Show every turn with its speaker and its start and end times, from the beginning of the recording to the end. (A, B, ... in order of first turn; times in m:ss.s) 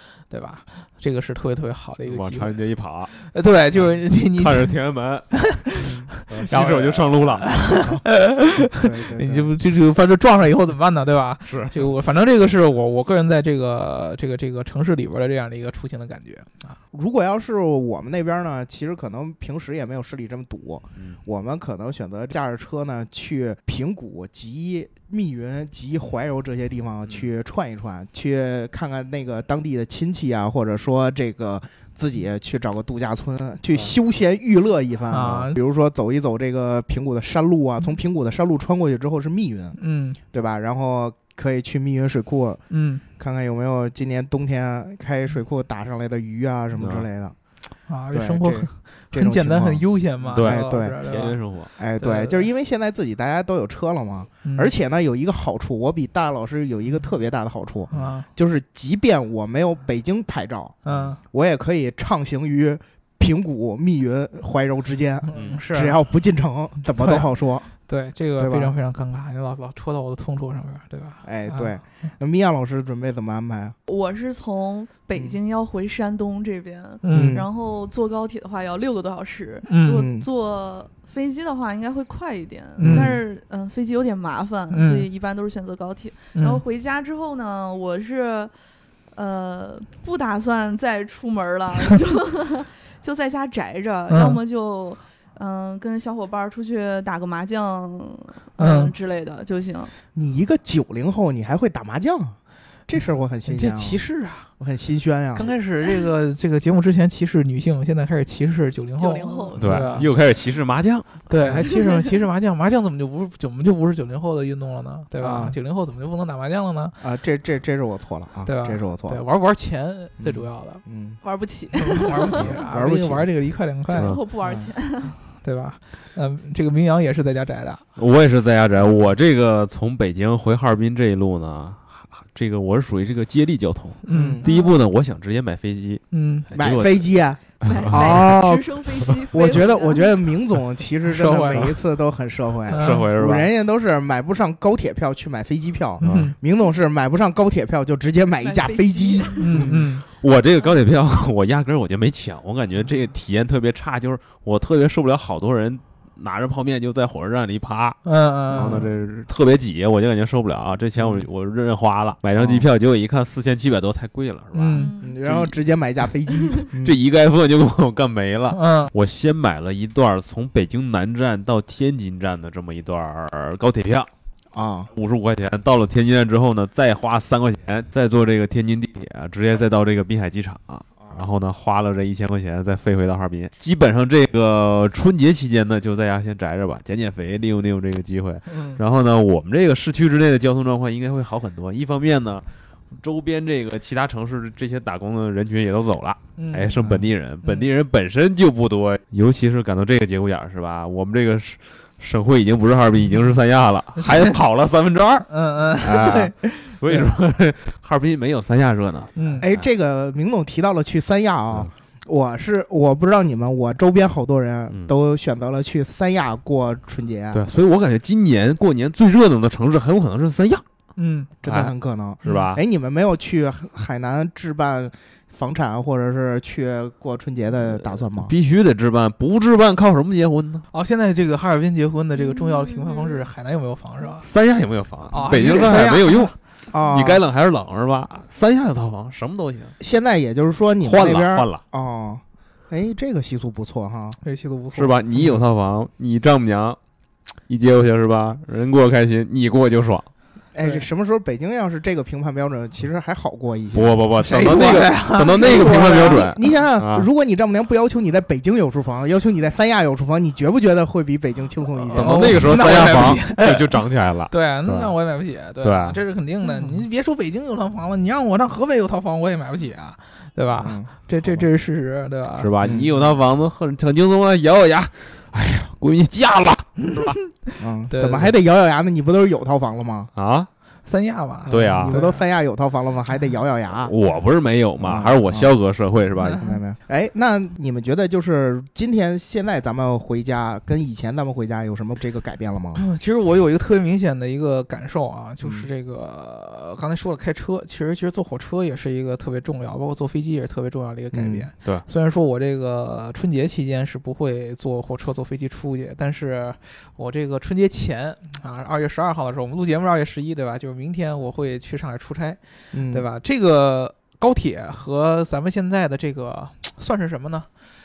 0:00.3-0:02.6 A
0:02.1-0:03.1 B
0:03.2-0:04.8 A
0:04.4-0:05.3 B
0:05.3-0:16.8 A
0:05.8-0:06.1 C
0:06.3-0:07.5 B
0:08.7-0:09.5 C
0:11.5-0:11.9 B
0:16.9-0:39.8 C
0:35.1-0:35.6 A
0:39.8-0:40.2 A
0:40.3-0:42.6 C
0:42.7-0:43.0 A
0:43.2-0:47.4 C
0:46.8-0:47.0 B
0:47.9-0:51.4 A
0:48.1-0:51.1 C
0:50.3-0:51.7 B
0:51.8-1:00.8 C
0:52.0-0:52.5 A
0:54.4-0:54.7 A
0:57.9-0:58.3 A
1:00.8-1:01.2 A
1:01.3-1:07.7 C
1:05.2-1:06.0 A
1:07.0-1:07.3 A
1:07.8-1:11.8 A
1:08.4-1:08.7 C
1:11.2-1:13.8 C
1:13.9-1:28.5 D
1:17.0-1:17.4 A
1:17.1-1:17.5 C
1:19.6-1:20.0 A
1:19.9-1:20.2 C
1:22.8-1:23.2 A
1:22.8-1:23.2 C
1:24.7-1:25.1 A
1:26.3-1:26.6 A
1:29.1-1:39.9 D
1:34.1-1:34.4 A
1:38.6-1:38.9 A
1:40.1-1:42.4 C
1:42.9-1:44.0 C
1:43.5-1:44.5 A
1:44.6-1:45.5 C
1:45.3-1:50.1 A
1:49.0-1:49.8 D
1:49.6-1:51.2 B
1:51.3-1:57.0 A
1:51.4-1:51.7 C
1:55.2-1:55.6 C
1:57.0-1:59.2 C
1:58.4-2:00.8 A
2:00.2-2:01.2 C
2:01.2-2:02.6 D
2:01.8-2:04.2 A
2:02.3-2:03.3 C
2:03.9-2:05.2 D
2:04.4-2:04.7 C
2:05.2-2:07.8 A
2:08.0-2:18.3 B
2:14.0-2:14.4 A
2:14.1-2:14.5 C
2:14.4-2:14.8 D
2:16.1-2:16.5 A
2:16.5-2:29.9 C
2:17.6-2:20.2 D
2:21.0-2:21.7 A
2:22.7-2:23.1 A
2:22.8-2:23.5 B
2:26.0-2:26.4 A
2:26.0-2:26.3 B
2:28.4-2:29.5 D
2:29.4-2:30.0 A
2:30.2-2:45.5 B
2:38.0-2:38.8 A
2:38.5-2:38.9 C
2:41.0-2:41.2 C
2:42.4-2:42.7 C
2:44.5-2:44.9 A
2:44.7-2:45.2 D
2:45.0-2:47.0 C
2:46.3-2:46.6 D
2:46.8-2:54.1 B
2:48.5-2:48.9 A
2:54.5-2:54.9 C
2:54.9-3:29.6 B
3:08.5-3:08.8 A
3:16.4-3:16.8 A
3:16.8-3:17.0 C
3:17.4-3:17.7 A
3:24.0-3:24.3 A
3:25.3-3:27.1 A
3:29.1-3:29.4 A
3:29.4-3:37.4 C
3:37.3-3:40.6 B
3:41.0-3:41.3 A
3:41.4-3:48.3 C
3:41.4-3:41.7 B
3:42.2-3:42.6 B
3:48.1-3:50.7 B
3:50.7-3:54.2 A
3:52.2-3:53.2 D
3:54.2-3:56.3 B
3:55.1-3:56.3 A
3:56.7-3:57.2 C
3:56.9-3:59.7 B
3:59.8-4:04.2 C
4:00.8-4:01.6 B
4:04.2-4:05.0 A
4:04.7-4:06.8 B
4:07.5-4:10.1 B
4:10.5-4:14.7 C
4:10.6-4:10.8 A
4:13.7-4:17.1 B
4:14.2-4:16.2 A
4:15.3-4:22.7 C
4:21.9-4:24.9 B
4:21.9-4:32.5 A
4:25.6-4:26.0 B
4:30.6-4:31.4 C
4:32.4-4:37.1 B
4:32.6-4:33.0 C
4:36.8-4:38.3 A
4:37.6-4:40.1 C
4:40.2-4:40.5 B
4:40.8-4:42.2 A
4:41.5-4:42.0 B
4:41.6-4:43.9 C
4:43.9-4:46.4 B
4:44.8-4:45.5 C
4:46.3-4:52.8 C
4:52.8-5:17.5 A
4:55.4-4:55.7 C
5:01.1-5:01.5 C
5:12.7-5:13.0 C